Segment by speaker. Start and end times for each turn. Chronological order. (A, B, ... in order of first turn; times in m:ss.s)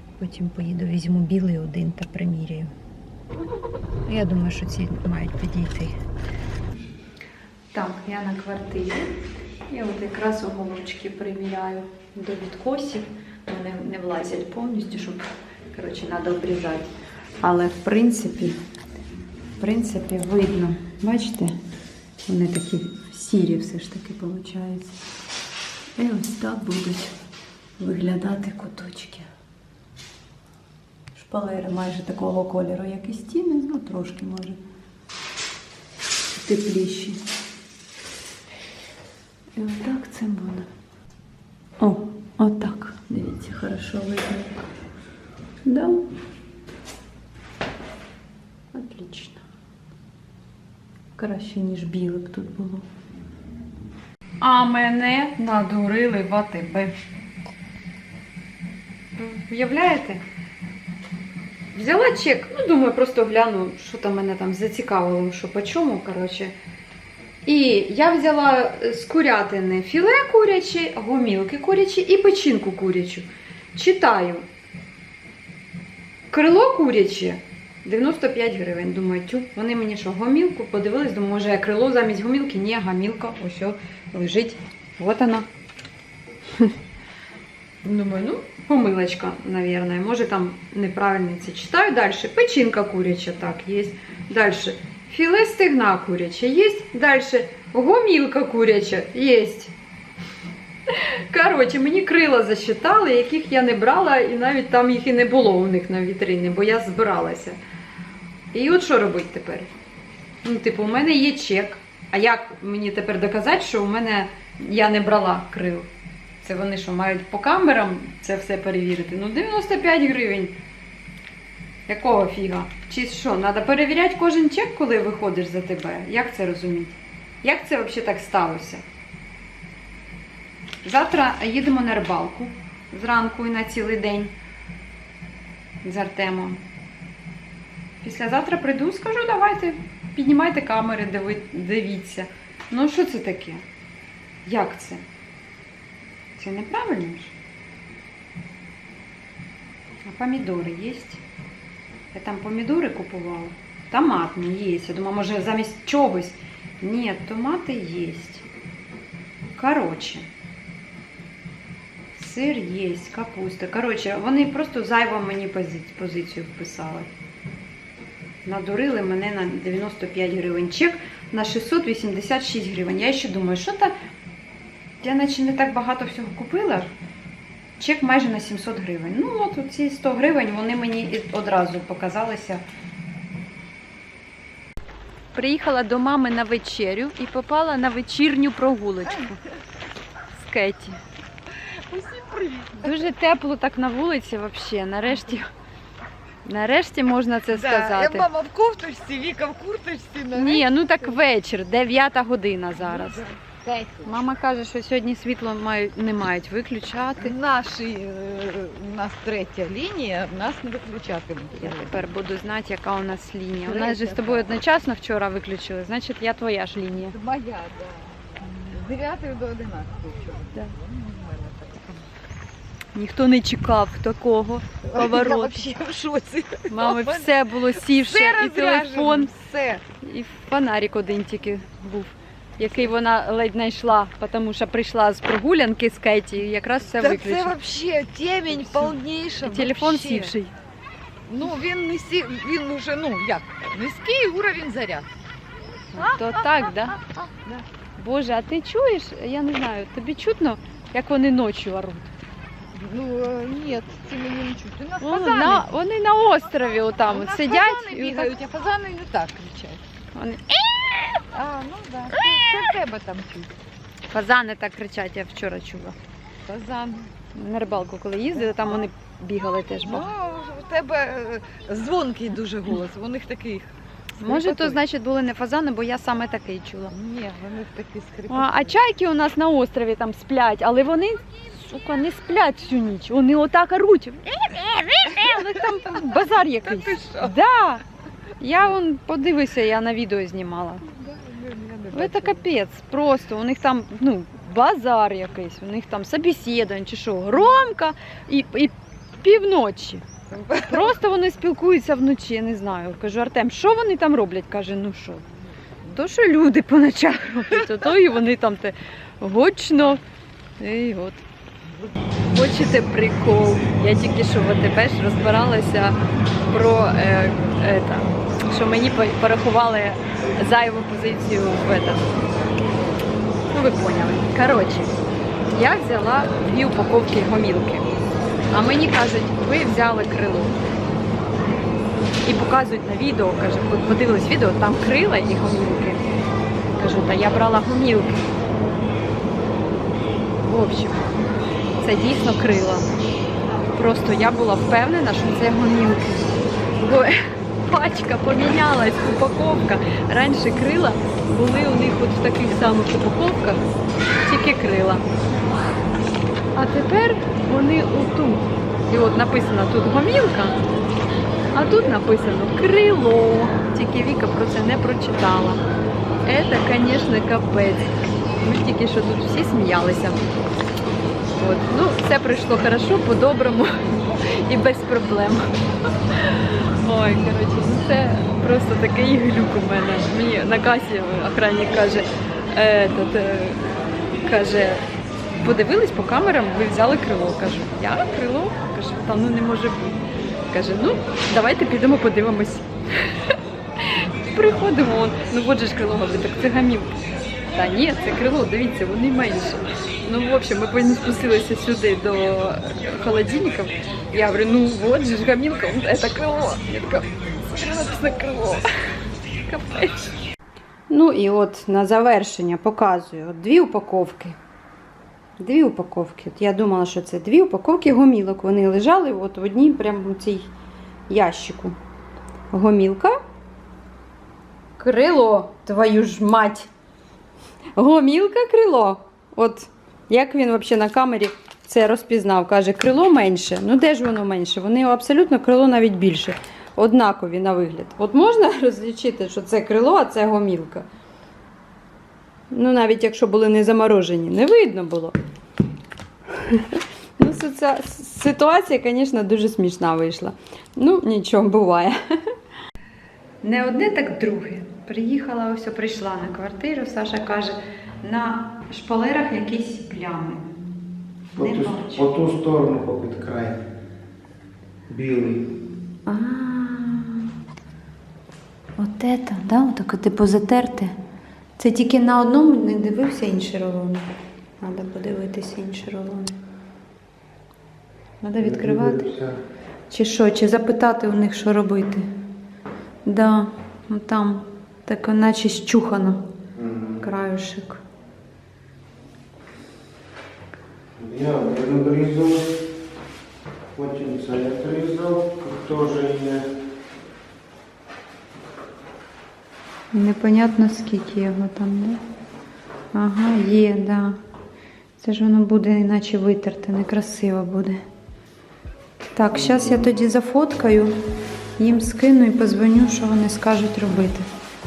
0:00.2-0:02.7 A
0:04.1-0:05.9 A
0:07.7-0:18.6 A
0:19.6-0:21.6 A
0:22.2-0:25.0 A
0:26.0-0:27.1 A
0:27.8-0:29.3 A
0:31.1-0:34.6 A
0:36.4-0:37.2 A
0:39.6-0:40.7 A
0:41.8-0:44.6 A
0:45.6-0:46.1 A
0:48.7-0:49.4 A
0:51.1-0:52.8 A
0:54.4-0:56.9 A
0:59.2-1:00.2 A
1:01.7-1:06.5 A
1:07.4-1:14.4 A
1:16.3-1:25.4 A
1:27.8-1:39.7 A
1:40.9-1:47.6 A
1:48.5-1:49.7 A
1:50.4-1:55.9 A
1:56.4-2:00.6 A
2:01.9-2:08.8 A
2:10.8-2:14.3 A
2:15.8-2:16.6 A
2:18.0-2:23.6 A
2:24.4-2:25.0 A
2:26.4-2:27.3 A
2:30.0-2:31.2 A
2:32.1-2:38.4 A
2:39.5-2:40.2 A
2:42.1-2:47.1 A
2:48.4-2:53.9 A
2:55.0-2:56.9 A
2:57.8-3:02.6 A
3:05.3-3:09.4 A
3:10.3-3:11.0 A
3:11.7-3:13.0 B
3:12.8-3:15.5 A
3:16.4-3:18.3 A
3:17.5-3:21.1 B
3:20.3-3:23.3 A
3:22.9-3:24.1 B
3:24.0-3:27.4 A
3:27.2-3:32.0 B
3:31.6-3:37.2 A
3:33.7-3:34.4 B
3:37.1-3:42.1 B
3:42.9-3:45.6 A
3:44.9-3:49.8 B
3:46.7-3:49.3 A
3:49.9-3:57.6 A
3:57.0-4:00.4 B
3:59.4-4:00.5 A
4:01.3-4:05.1 B
4:05.9-4:07.0 A
4:06.0-4:06.2 B
4:07.3-4:07.6 B
4:08.0-4:12.1 A
4:12.7-4:15.6 B
4:15.0-4:18.3 A
4:17.0-4:19.8 B
4:20.1-4:21.1 A
4:21.3-4:23.5 B
4:24.1-4:26.0 A
4:26.5-4:27.1 B
4:27.3-4:30.1 A
4:29.8-4:33.7 B
4:34.2-4:36.9 A
4:34.2-4:34.8 B
4:36.9-4:38.8 B
4:38.3-4:47.8 A
4:46.6-4:47.4 B
4:48.4-4:50.8 A
4:51.0-4:52.4 B
4:51.9-5:00.0 A
5:00.3-5:00.9 B
5:00.6-5:05.2 A
5:05.8-5:10.0 A
5:10.6-5:11.2 A
5:12.3-5:22.1 A
5:23.5-5:24.9 A
5:25.5-5:27.9 A
5:28.5-5:30.6 A
5:32.2-5:36.0 A
5:36.8-5:38.2 A
5:40.4-5:41.1 A
5:41.8-5:42.9 A
5:43.7-5:53.6 A
5:54.2-5:55.0 A
5:56.6-6:00.6 A
6:01.5-6:05.6 A
6:06.2-6:10.2 A
6:11.3-6:15.5 A
6:16.1-6:23.7 A
6:24.2-6:24.8 A
6:25.4-6:37.0 A
6:37.5-6:48.7 A
6:49.4-6:49.9 A
6:50.9-6:54.4 A
6:55.4-7:00.5 A
7:01.1-7:01.8 A
7:02.5-7:03.1 A
7:04.8-7:06.7 A
7:07.8-7:20.9 A
7:22.5-7:25.2 A
7:27.2-7:32.0 A
7:33.4-7:40.4 A
7:41.3-7:42.1 A
7:41.4-7:43.6 C
7:44.9-7:45.5 C
7:46.1-7:47.3 A
7:48.8-7:50.9 A
7:51.6-7:54.1 A
7:54.6-7:56.3 A
7:58.2-7:59.1 A
7:58.4-7:59.4 C
7:59.9-8:02.1 A
8:03.1-8:06.2 A
8:06.6-8:07.0 C
8:07.0-8:07.8 A
8:11.0-8:12.5 C
8:13.7-8:16.5 C
8:19.9-8:22.0 A
8:22.9-8:24.2 A
8:25.0-8:27.8 A
8:29.1-8:31.0 A
8:31.6-8:34.3 A